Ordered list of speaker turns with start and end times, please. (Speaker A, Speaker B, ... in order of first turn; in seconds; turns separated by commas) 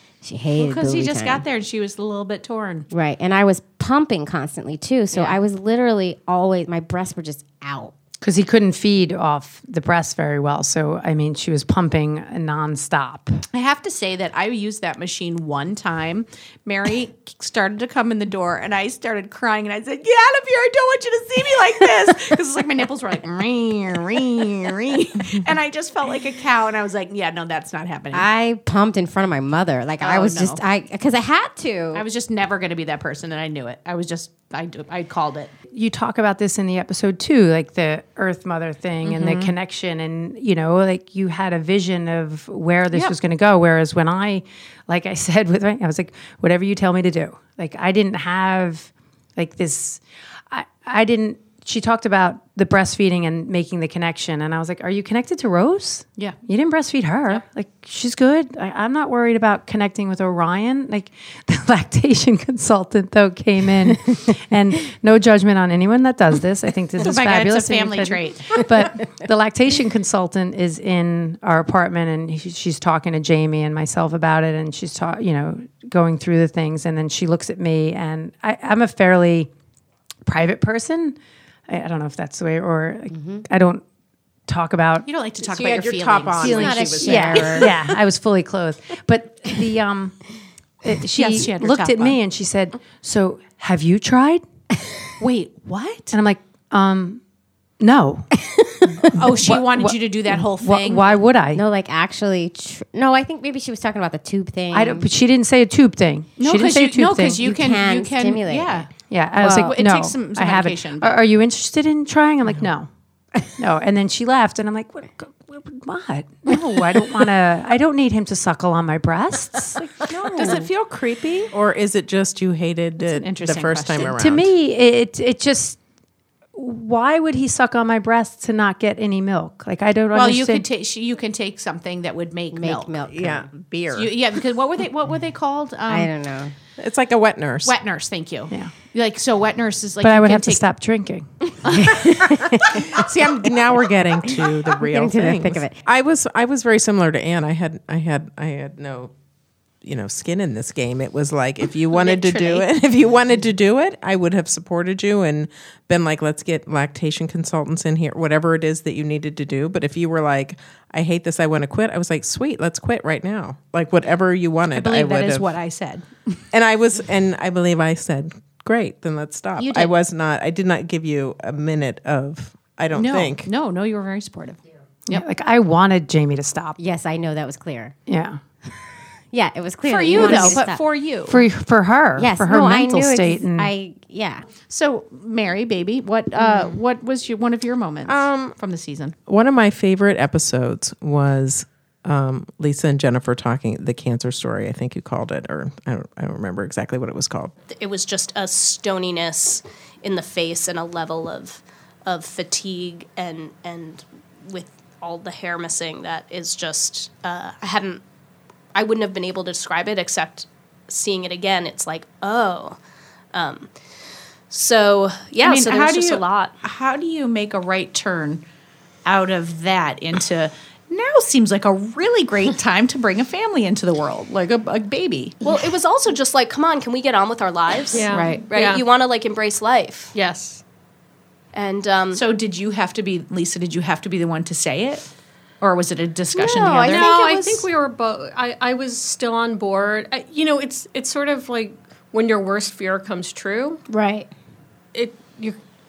Speaker A: 0.2-1.4, Speaker B: 0.6-2.9, Speaker A: 2.9-7.9, Speaker B: 5.1-5.4, Speaker C: 8.2-13.4, Speaker B: 13.5-28.3, Speaker A: 28.1-32.0, Speaker B: 30.0-30.6, Speaker B: 31.9-35.5, Speaker C: 35.7-79.5, Speaker B: 39.0-39.5, Speaker B: 67.0-68.6, Speaker C: 80.2-83.8, Speaker A: 83.1-83.4, Speaker C: 84.5-85.1, Speaker B: 85.0-87.6, Speaker D: 85.5-87.7, Speaker C: 86.4-90.2, Speaker A: 86.4-87.8, Speaker C: 90.8-94.4, Speaker B: 91.1-92.2, Speaker B: 95.2-96.1, Speaker C: 96.1-97.2, Speaker C: 97.8-98.3, Speaker C: 98.9-101.6, Speaker B: 99.1-101.2, Speaker A: 101.5-105.1, Speaker C: 104.7-107.4, Speaker B: 106.4-111.2, Speaker A: 107.4-108.9, Speaker C: 109.1-112.9, Speaker C: 113.6-120.1, Speaker B: 120.1-120.6, Speaker D: 120.3-124.5, Speaker B: 123.0-124.1, Speaker C: 124.2-125.8, Speaker C: 126.5-130.6, Speaker B: 130.1-132.9, Speaker A: 132.5-133.5, Speaker D: 133.1-134.1, Speaker B: 133.9-136.1, Speaker A: 135.9-136.5, Speaker D: 136.8-137.7, Speaker B: 137.6-140.6, Speaker C: 140.0-142.3, Speaker A: 141.7-143.0, Speaker B: 142.9-143.6, Speaker D: 143.0-149.1, Speaker A: 144.8-145.8, Speaker D: 149.8-165.5, Speaker B: 164.7-166.4, Speaker D: 166.5-173.5, Speaker B: 169.6-169.9, Speaker B: 172.9-175.2, Speaker C: 175.1-176.8, Speaker A: 176.8-177.9, Speaker C: 178.1-178.4, Speaker A: 179.3-180.8, Speaker B: 179.8-181.4, Speaker C: 180.1-180.6, Speaker C: 181.3-183.7, Speaker A: 182.2-184.4, Speaker B: 184.7-189.1, Speaker D: 188.1-188.5, Speaker D: 189.3-197.5, Speaker E: 197.7-208.0, Speaker E: 208.7-212.8, Speaker E: 213.3-213.7, Speaker E: 214.5-216.5, Speaker B: 215.4-218.4, Speaker B: 219.0-225.4, Speaker E: 225.4-230.1, Speaker F: 227.9-228.8, Speaker F: 230.1-230.6, Speaker E: 231.5-232.2, Speaker B: 232.1-235.1, Speaker B: 235.6-237.7, Speaker A: 236.4-237.0, Speaker F: 236.9-243.8, Speaker A: 243.9-244.3, Speaker F: 244.9-245.6